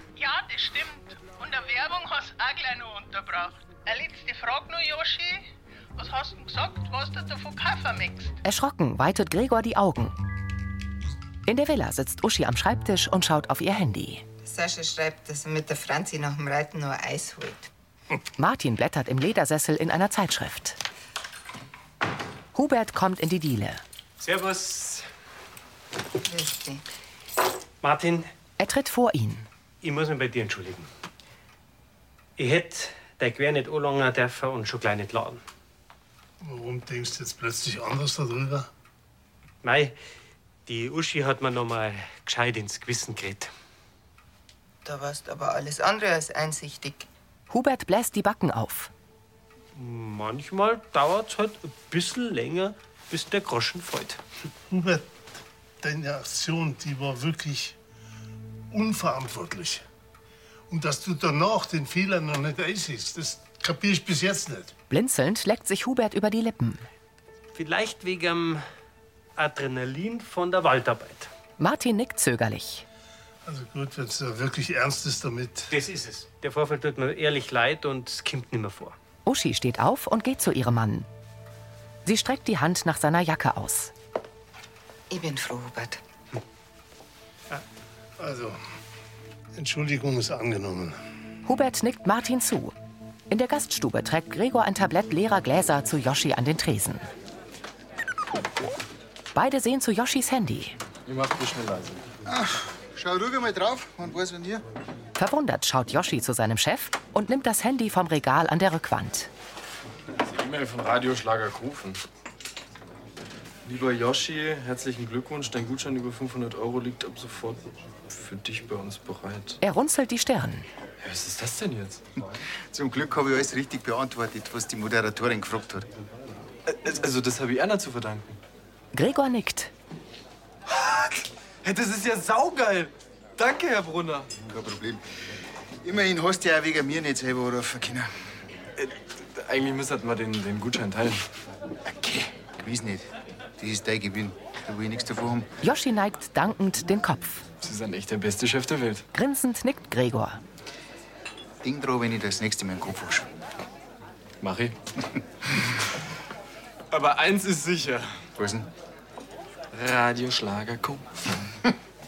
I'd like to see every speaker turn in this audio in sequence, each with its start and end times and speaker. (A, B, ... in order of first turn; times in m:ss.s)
0:00.2-0:08.4 A
0:08.4-0:10.1 B
0:11.4-0:14.2 B
0:14.4-0:17.7 C
0:18.4-0:20.8 B
0:22.5-0:23.8 B
0:24.2-0:25.0 D
0:26.2-0:26.8 C
0:27.8-0:28.3 D
0:28.6-0:29.5 B
0:29.8-0:30.9 D
0:32.4-0:35.4 D
0:36.4-0:38.7 E
0:39.6-0:39.9 D
0:40.6-0:43.5 D
0:44.8-0:47.1 C
0:47.5-0:48.9 B
0:49.7-0:54.2 D
0:54.7-0:57.8 E
0:58.7-0:59.8 E
1:00.7-1:04.7 E
1:04.9-1:06.9 B
1:07.5-1:08.6 D
1:09.4-1:11.3 D
1:11.6-1:12.8 B
1:13.4-1:15.7 E
1:15.7-1:19.0 D
1:19.2-1:21.1 B
1:22.0-1:23.9 B
1:25.1-1:26.0 C
1:28.2-1:28.6 E
1:29.5-1:31.0 E
1:31.4-1:32.7 B
1:33.3-1:37.1 B
1:39.3-1:40.8 B
1:41.0-1:42.0 F
1:42.2-1:44.6 G
1:45.2-1:49.3 B
1:50.2-1:52.0 F
1:53.6-1:59.6 F
1:59.6-2:00.7 B
2:01.0-2:02.0 F
2:02.7-2:05.9 G
2:06.6-2:08.4 F
2:08.9-2:09.7 B
2:10.6-2:14.3 F
2:14.5-2:15.0 G
2:15.8-2:18.1 G
2:18.8-2:21.2 F
2:21.8-2:25.5 G
2:25.6-2:27.5 B
2:27.6-2:29.0 F
2:29.1-2:30.4 B
2:31.6-2:33.3 G
2:34.4-2:34.8 F
2:36.9-2:38.5 F
2:38.4-2:38.7 G
2:39.7-2:41.4 F